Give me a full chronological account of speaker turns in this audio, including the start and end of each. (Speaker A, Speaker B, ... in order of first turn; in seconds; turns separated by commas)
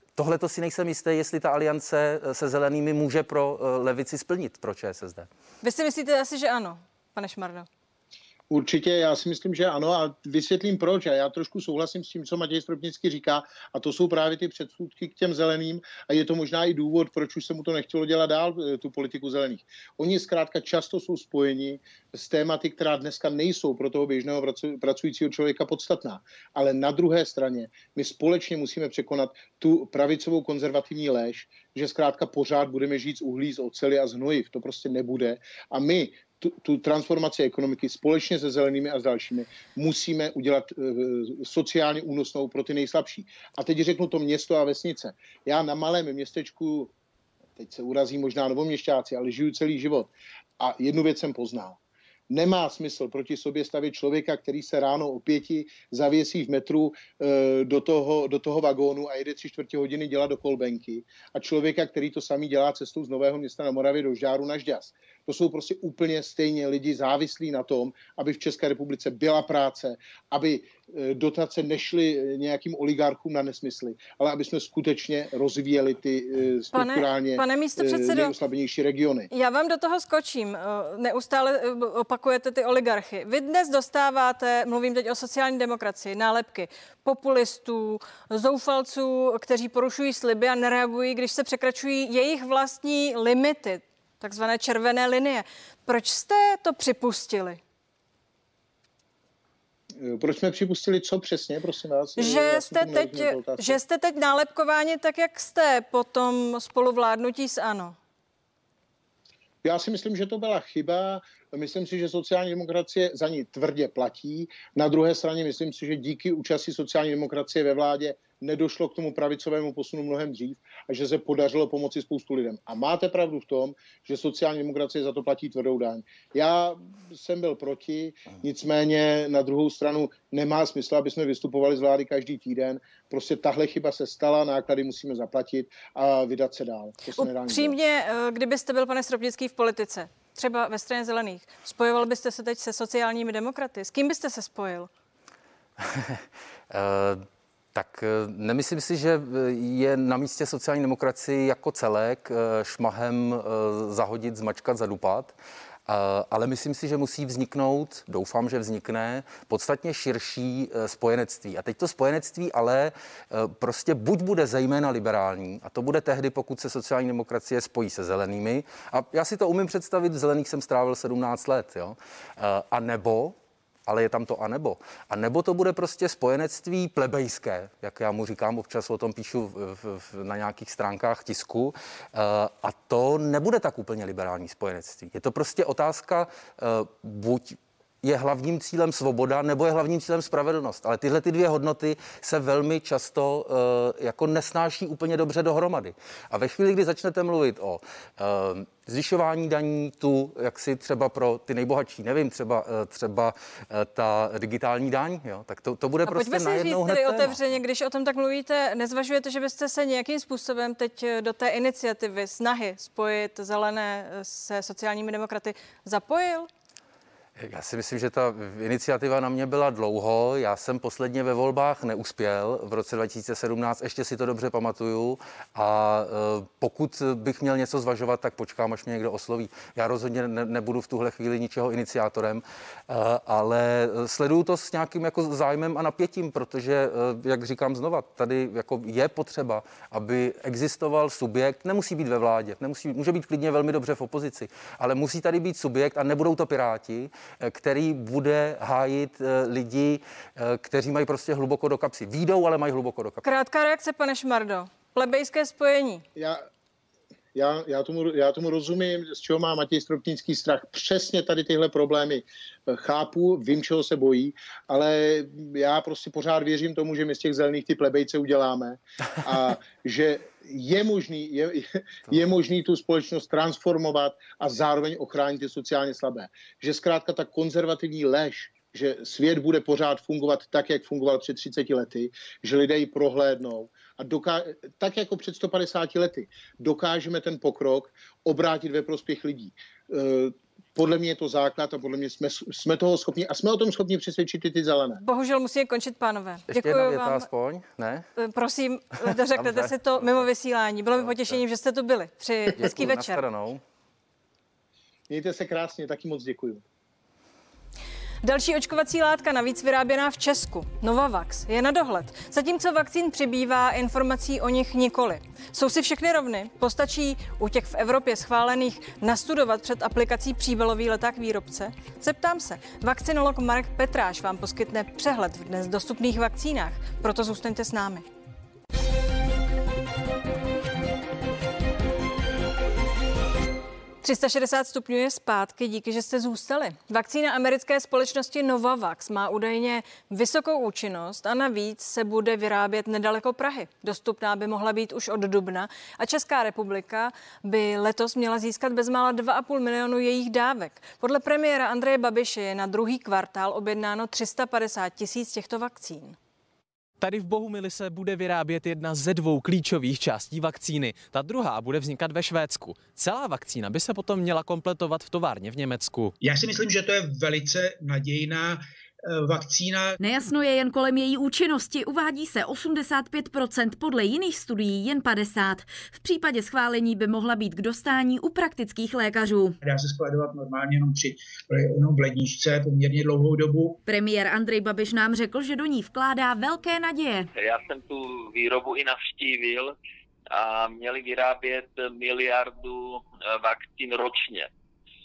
Speaker A: 0.2-5.3, Speaker B: 5.6-7.7, Speaker C: 8.5-46.9, Speaker C: 47.6-51.8, Speaker C: 52.3-79.3, Speaker B: 76.7-78.3, Speaker B: 79.3-97.6, Speaker C: 100.0-103.8, Speaker B: 102.2-108.0, Speaker C: 109.6-137.8, Speaker B: 137.2-144.9, Speaker A: 145.8-155.3, Speaker A: 155.9-173.4, Speaker A: 173.9-207.5, Speaker B: 206.1-216.5, Speaker A: 217.4-253.2, Speaker B: 253.2-256.1, Speaker C: 256.2-256.4, Speaker C: 257.4-295.0, Speaker B: 295.0-297.3, Speaker A: 296.5-298.1, Speaker B: 298.2-303.2, Speaker A: 299.3-300.2, Speaker A: 301.0-301.4, Speaker A: 302.6-303.6, Speaker C: 305.1-306.6, Speaker B: 308.2-328.1, Speaker B: 334.0-356.2, Speaker D: 357.0-366.1, Speaker E: 366.2-369.9, Speaker F: 370.0-379.6, Speaker E: 379.6-383.8, Speaker F: 383.9-387.3, Speaker G: 387.4-389.8, Speaker G: 390.3-394.5